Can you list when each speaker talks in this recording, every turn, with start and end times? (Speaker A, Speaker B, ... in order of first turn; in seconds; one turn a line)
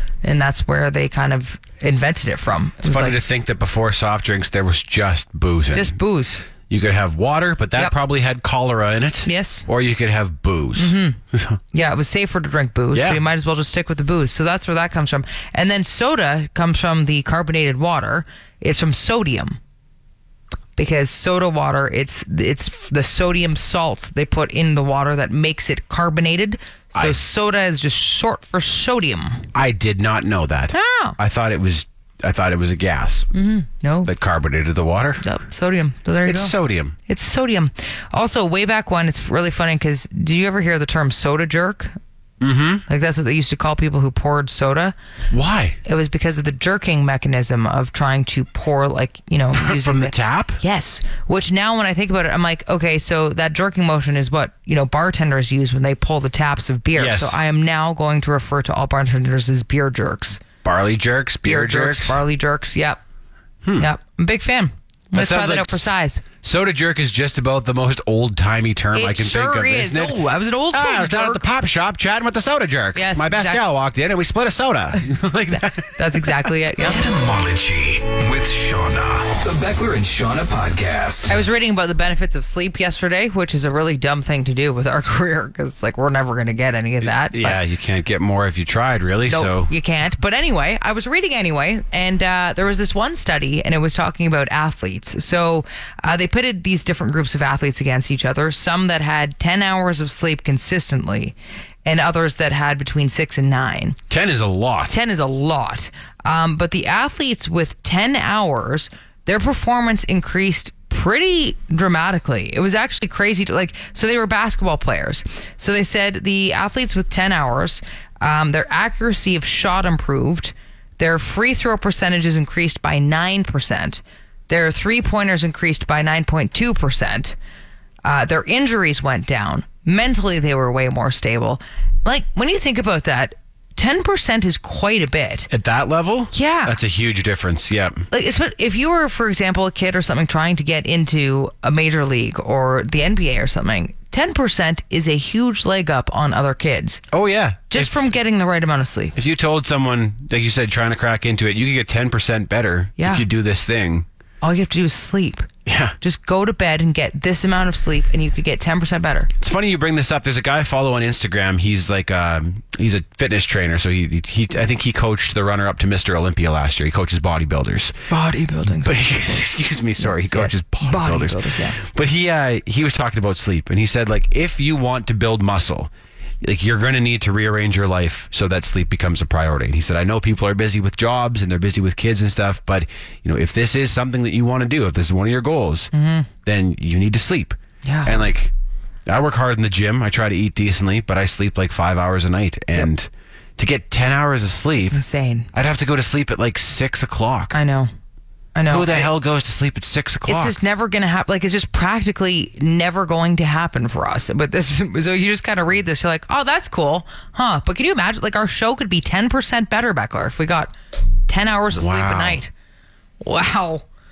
Speaker A: 0.2-3.2
Speaker B: 2.8-6.0
Speaker A: 5.7-6.5
Speaker B: 6.7-11.6
Speaker A: 9.2-9.7
Speaker A: 10.8-11.2
Speaker A: 11.7-19.6
Speaker B: 12.9-13.2
Speaker A: 20.8-29.4
Speaker B: 29.5-33.3
Speaker A: 30.7-31.2
Speaker A: 33.3-34.1
Speaker B: 34.0-35.2
Speaker A: 35.2-36.5
Speaker B: 36.2-36.9
Speaker A: 37.1-41.9
Speaker B: 42.4-42.8
Speaker A: 42.9-44.9
Speaker B: 45.3-45.8
Speaker A: 45.8-60.4
Speaker B: 49.5-50.6
Speaker B: 57.0-57.4
Speaker B: 60.6-62.2
Speaker A: 61.4-63.0
Speaker A: 63.8-66.2
Speaker B: 65.1-70.2
Speaker A: 68.9-71.4
Speaker B: 70.7-76.3
Speaker A: 72.9-73.6
Speaker A: 75.8-77.0
Speaker C: 76.8-81.4
Speaker A: 81.3-87.6
Speaker B: 87.0-89.7
Speaker A: 89.3-101.3
Speaker A: 101.8-104.0
Speaker B: 104.1-104.9
Speaker A: 104.9-127.3
Speaker A: 128.0-135.5
Speaker B: 135.5-138.1
Speaker A: 136.3-136.8
Speaker A: 138.1-147.0
Speaker B: 147.1-148.1
Speaker A: 147.7-149.1
Speaker B: 149.1-154.1
Speaker A: 153.0-153.2
Speaker A: 154.4-155.5
Speaker B: 155.7-155.9
Speaker A: 156.0-159.3
Speaker B: 159.4-167.9
Speaker A: 168.1-168.9
Speaker B: 168.8-175.9
Speaker A: 170.0-171.8
Speaker B: 176.4-185.9
Speaker A: 185.9-186.3
Speaker B: 186.4-188.5
Speaker A: 187.8-188.1
Speaker B: 189.1-195.0
Speaker A: 194.9-195.5
Speaker B: 195.5-197.5
Speaker A: 197.5-197.9
Speaker A: 198.5-199.1
Speaker B: 198.7-200.6
Speaker A: 200.3-210.7
Speaker A: 211.3-212.5
Speaker B: 211.7-212.4
Speaker A: 213.2-213.8